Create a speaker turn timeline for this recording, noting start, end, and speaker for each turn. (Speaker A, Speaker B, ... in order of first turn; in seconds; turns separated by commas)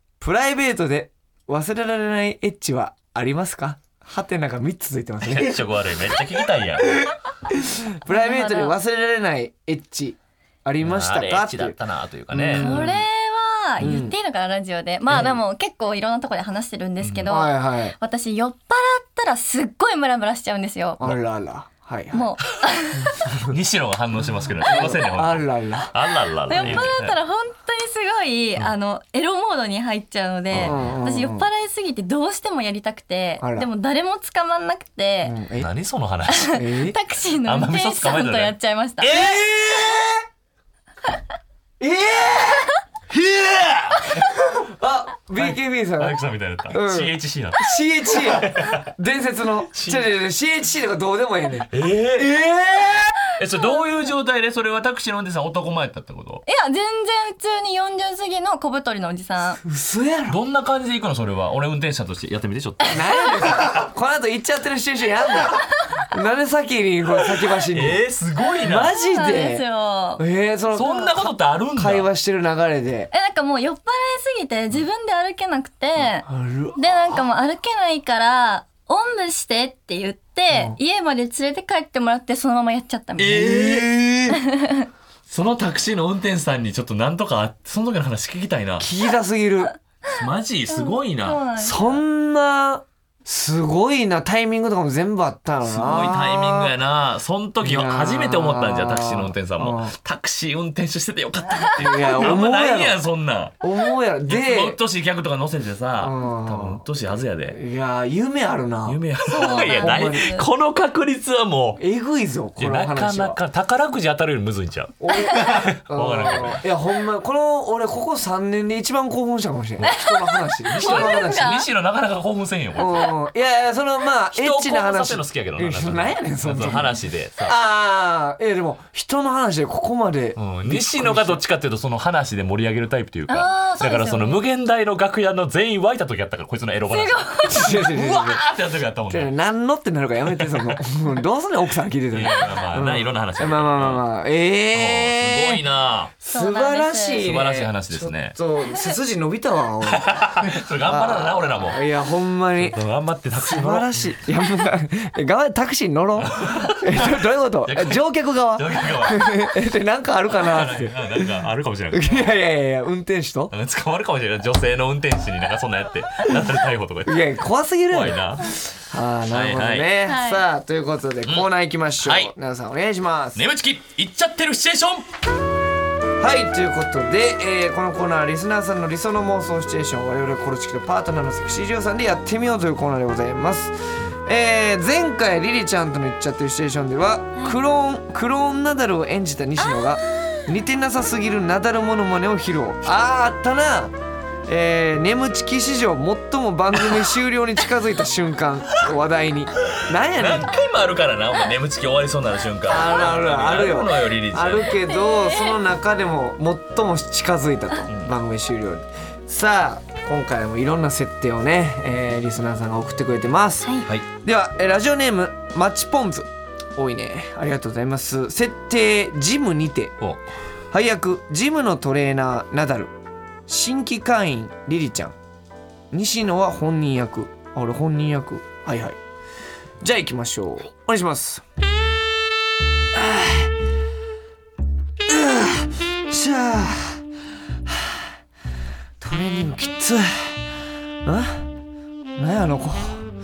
Speaker A: 0.2-5.6, Speaker B: 5.2-7.1, Speaker A: 7.0-11.8, Speaker C: 8.1-8.8, Speaker B: 10.8-12.9, Speaker A: 12.3-13.0, Speaker C: 12.6-21.1, Speaker A: 13.8-14.2, Speaker B: 17.0-17.3, Speaker A: 17.3-17.9, Speaker A: 21.0-22.3, Speaker C: 22.1-23.2, Speaker A: 23.2-23.5, Speaker B: 23.3-27.1, Speaker A: 24.6-25.9, Speaker C: 26.5-35.4, Speaker A: 26.6-26.9, Speaker A: 30.5-31.5, Speaker B: 30.6-30.9, Speaker A: 33.4-33.7, Speaker A: 35.2-35.7, Speaker B: 35.6-36.6, Speaker C: 36.3-39.2, Speaker A: 36.5-37.0, Speaker B: 37.4-40.2, Speaker A: 41.8-42.7, Speaker B: 43.1-44.3, Speaker A: 44.6-46.2, Speaker B: 45.4-47.7, Speaker A: 46.7-53.2, Speaker B: 48.2-48.9, Speaker B: 49.7-50.1, Speaker B: 51.7-56.4, Speaker C: 56.5-59.6, Speaker A: 59.6-60.4, Speaker B: 60.3-63.8, Speaker A: 62.9-68.0, Speaker B: 67.7-68.9, Speaker A: 68.6-69.6, Speaker C: 69.0-70.2, Speaker A: 70.2-73.1, Speaker B: 70.7-72.1, Speaker C: 73.1-83.6, Speaker A: 76.3-77.2, Speaker A: 80.5-80.8, Speaker B: 83.2-84.4, Speaker A: 83.3-84.1, Speaker C: 84.3-84.9, Speaker B: 85.3-88.9, Speaker A: 88.8-89.7, Speaker B: 90.1-91.8, Speaker C: 90.7-91.8, Speaker A: 91.6-96.7, Speaker B: 95.6-103.6, Speaker A: 97.6-100.0, Speaker A: 101.8-103.0, Speaker A: 103.6-104.8, Speaker B: 104.3-107.6, Speaker A: 106.0-106.8, Speaker A: 107.5-110.4, Speaker B: 108.9-111.8, Speaker C: 109.2-110.5, Speaker A: 111.8-113.4, Speaker B: 112.6-116.6, Speaker A: 115.0-121.5, Speaker C: 119.8-121.7, Speaker B: 120.7-123.1, Speaker A: 122.8-131.4, Speaker B: 124.3-127.6, Speaker B: 130.4-139.3, Speaker C: 133.3-134.4, Speaker C: 136.9-137.8, Speaker A: 137.5-138.4, Speaker A: 139.1-145.6, Speaker B: 140.3-140.8, Speaker B: 142.1-144.0, Speaker B: 144.7-146.1, Speaker A: 146.2-152.8, Speaker C: 146.3-147.2, Speaker B: 147.2-148.4, Speaker B: 149.8-151.8, Speaker B: 152.6-154.2, Speaker A: 153.4-161.3, Speaker B: 156.2-158.0, Speaker B: 158.6-159.5, Speaker B: 160.4-162.3, Speaker A: 161.9-163.5, Speaker B: 163.5-167.3, Speaker A: 167.1-173.4, Speaker B: 167.9-168.5, Speaker B: 169.3-169.9, Speaker C: 170.1-170.4, Speaker B: 172.0-172.3, Speaker B: 173.3-175.1, Speaker A: 176.2-193.9, Speaker A: 194.5-200.5, Speaker B: 199.7-204.8, Speaker A: 202.7-219.9, Speaker C: 204.9-205.6, Speaker B: 207.9-208.1, Speaker A: 220.7-222.9, Speaker A: 223.5-225.2, Speaker A: 225.9-229.0, Speaker A: 229.8-231.4, Speaker A: 232.9-233.5, Speaker A: 235.1-237.0, Speaker A: 237.7-238.1, Speaker A: 239.0-240.3, Speaker A: 241.0-241.4, Speaker A: 242.2-243.1